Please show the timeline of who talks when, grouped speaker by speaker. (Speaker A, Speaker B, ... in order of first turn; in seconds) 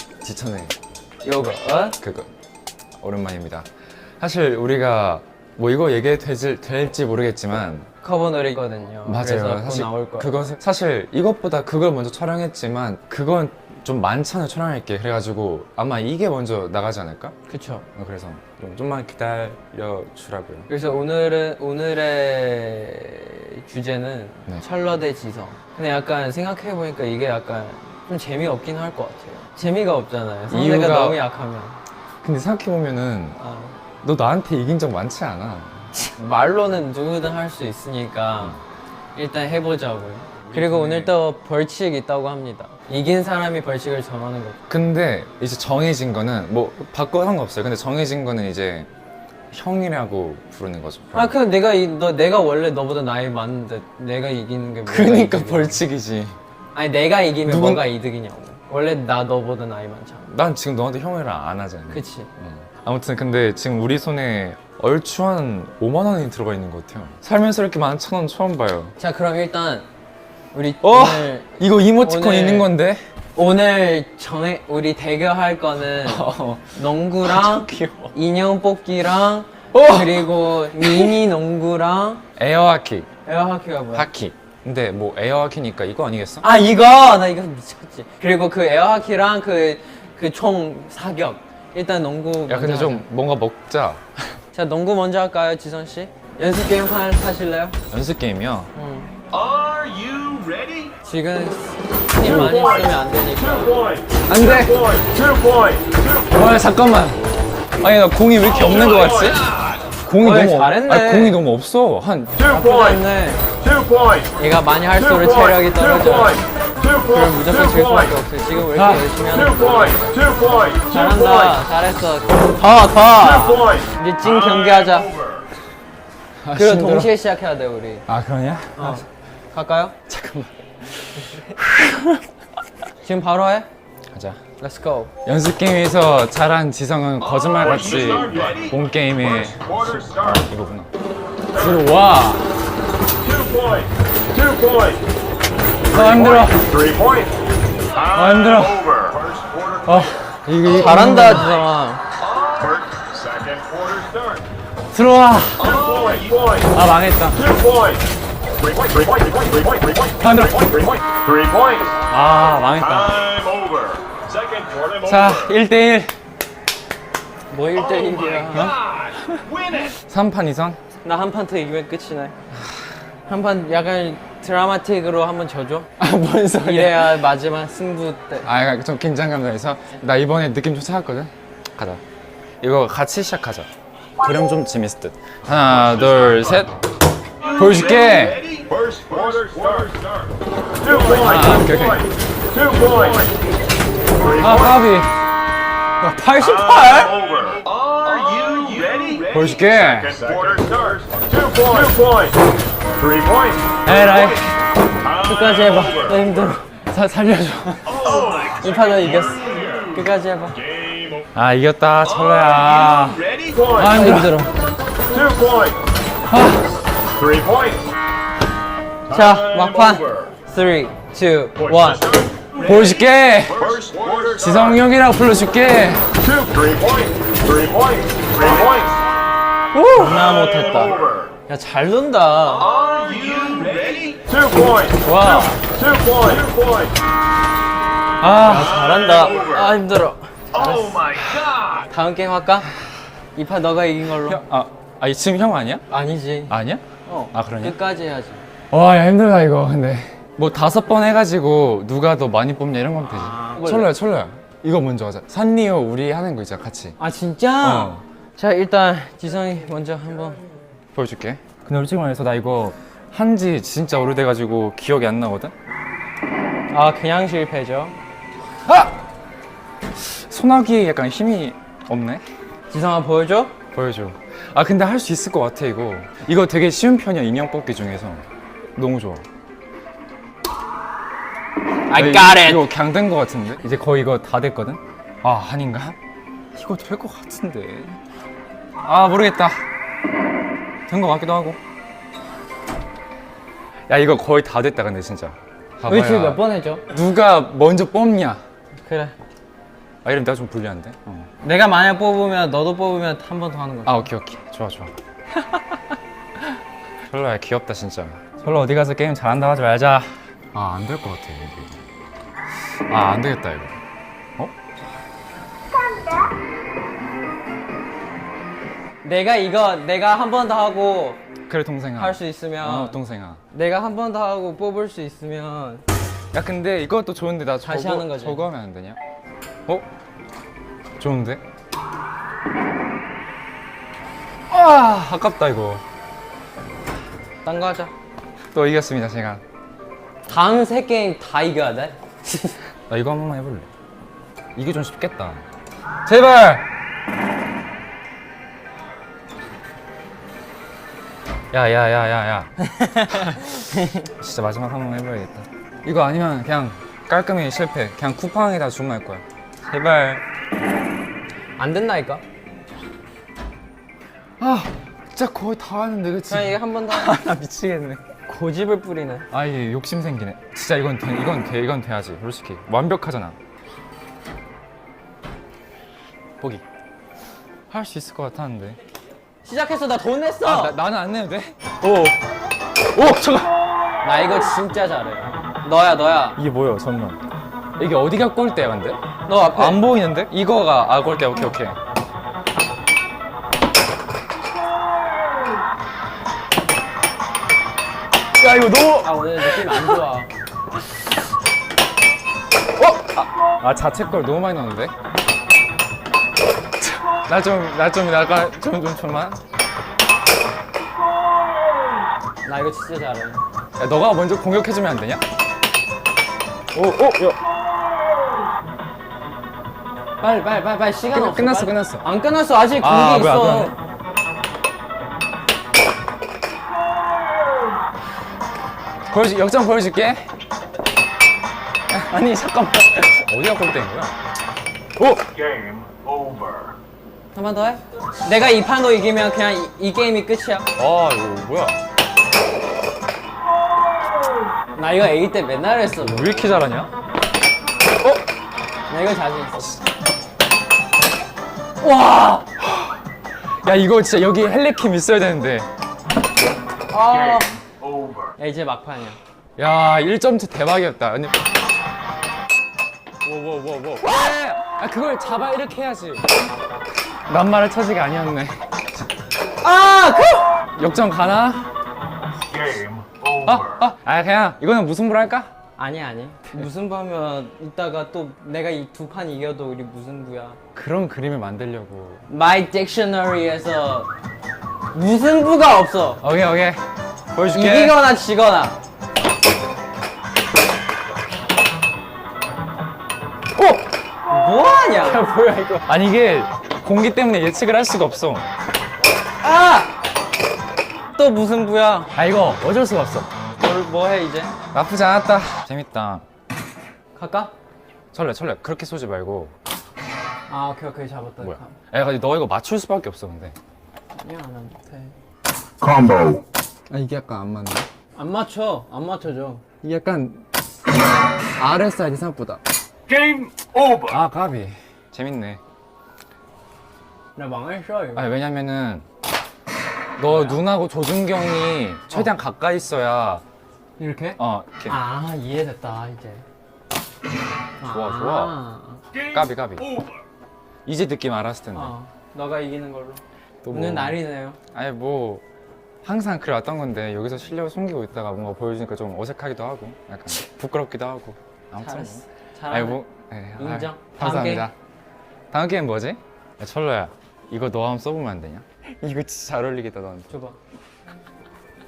Speaker A: 0.2-0.8, 2.0-2.3, 3.0-3.7, 4.2-7.9, 9.1-17.3, 18.0-20.7, 30.5-31.2, 32.2-33.4, 34.0-36.0, 40.5-41.1, 44.7-48.9, 49.5-51.4, 54.9-56.4, 57.5-57.9, 60.3-69.0, 70.8-73.0, 76.0-78.1, 79.7-81.2, 82.4-83.1, 83.9-86.5, 92.5-94.4, 97.9-98.7, 102.2-102.8, 104.3-105.0, 106.2-107.2, 107.8-109.5, 110.0-112.4, 118.8-119.0, 126.4-127.2, 128.1-129.0, 130.1-132.2, 134.1-134.4, 135.2-140.9, 141.5-142.5, 145.9-146.8, 148.0-149.0, 149.8-151.6, 154.9-155.9, 156.6-157.5, 160.2-160.9, 162.1-163.4, 165.0-166.2, 169.8-170.8, 176.0-177.3, 178.4-182.0, 182.6-183.7, 184.2-186.8, 187.5-188.4, 190.9-192.1, 194.3-195.1, 199.3-200.2, 203.8-204.5, 206.9-208.2, 211.3-214.4, 216.3-216.7, 222.6-223.7, 224.3-226.2, 235.1-235.4, 238.2-238.8, 244.2-245.8, 246.5-247.8, 248.7-257.0, 257.6-258.0, 260.9-265.5, 268.6-268.9, 269.9-272.2, 273.7-278.2, 278.8-279.2, 281.9-286.0, 286.6-288.0, 288.8-289.6, 290.9-291.6, 293.9-298.4, 300.0-301.3, 303.9-304.9, 307.1-311.8, 312.9-313.8, 314.4-314.7, 321.5-323.4, 326.3-329.0, 331.0-331.4, 334.5-335.8, 338.5-339.4, 342.9-343.7, 344.6-345.4, 346.1-346.7, 351.5-352.5, 353.1-353.5, 354.1-360.2, 364.4-368.0, 369.3-373.4, 377.7-378.8, 380.4-382.2, 382.9-383.5, 386.4-387.2, 387.8-389.0, 389.5-391.8, 398.4-400.0, 402.8-404.9, 406.9-409.4, 413.8-415.2, 416.7-417.4, 421.1-422.1, 422.8-423.7, 429.1-430.3, 431.9-434.2, 435.0-435.4, 440.8-441.8, 446.0-446.9, 452.6-453.0, 453.6-455.7, 459.6-461.4, 463.2-466.2, 467.3-468.8, 470.8-471.7, 473.4-475.5, 480.8-482.3, 486.2-486.8, 487.4-488.0, 495.1-498.5, 502.1-503.3, 504.7-506.2, 508.1-509.5, 511.4-513.6, 515.9-516.3, 516.9-517.9, 519.8-520.5, 521.6-522.6, 523.8-525.6, 528.1-529.0, 530.2-533.4, 534.4-535.0, 537.8-538.6, 539.1-540.0, 540.9-542.0, 543.6-544.2, 544.7-545.4, 546.0-554.7, 555.5-560.3
Speaker B: 1.2-2.0, 8.0-10.5, 17.5-17.9, 20.7-31.8, 33.4-33.8, 36.1-38.6, 39.2-44.6, 51.1-55.8, 56.8-60.3, 61.9-62.3, 69.0-69.9, 70.5-72.7, 73.4-82.2, 83.2-84.1, 86.4-93.0, 94.5-97.8, 98.8-99.1, 101.0-104.0, 110.2-111.4, 112.4-113.5, 114.4-116.4, 117.0-125.2, 126.5-128.1, 128.8-129.9, 131.2-131.5, 133.0-133.7, 134.6-135.1, 150.7-152.0, 167.5-168.8, 171.0-172.3, 173.3-175.9, 176.6-178.5, 196.0-197.2, 205.2-206.8, 208.2-210.6, 213.8-214.5, 219.1-222.2, 229.7-232.8, 235.1-235.6, 238.3-241.3, 241.9-242.7, 243.3-244.4, 245.9-248.4, 253.1-253.9, 257.0-260.4, 266.7-268.0, 272.7-273.5, 281.9-282.7, 295.9-296.8, 298.9-299.1, 301.4-304.1, 319.0-321.2, 321.9-323.0, 323.5-325.8, 327.6-328.5, 337.4-337.9, 340.3-342.6, 352.7-354.1, 361.6-362.2, 366.3-367.1, 368.3-369.3, 379.4-380.8, 384.0-386.4, 389.3-389.9, 399.0-400.3, 412.4-413.4, 420.2-423.8, 437.3-440.7, 444.8-446.6, 448.9-449.8, 451.8-452.5, 456.9-457.6, 458.4-459.2, 469.6-470.6, 475.8-480.6, 482.3-484.1, 484.9-486.2, 487.5-488.8, 494.3-495.3, 499.4-499.9, 501.1-502.1, 503.6-504.5, 507.2-507.5, 510.5-511.8, 514.2-515.1, 518.2-519.6, 527.4-528.3, 530.3-530.6, 534.0-536.4, 537.8-539.0, 541.7-544.6, 551.8-553.0, 553.6-554.7, 560.3-560.6
Speaker C: 99.4-100.9, 137.7-138.6, 148.5-149.8, 152.4-154.4, 155.8-156.6, 163.3-165.0, 188.4-190.1, 192.8-193.2, 197.1-199.4, 200.0-202.0, 208.1-208.5, 213.4-213.7, 223.6-224.6, 226.6-226.9, 228.2-228.8, 232.7-234.4, 241.2-241.5, 435.4-436.7, 472.6-473.3, 523.1-523.5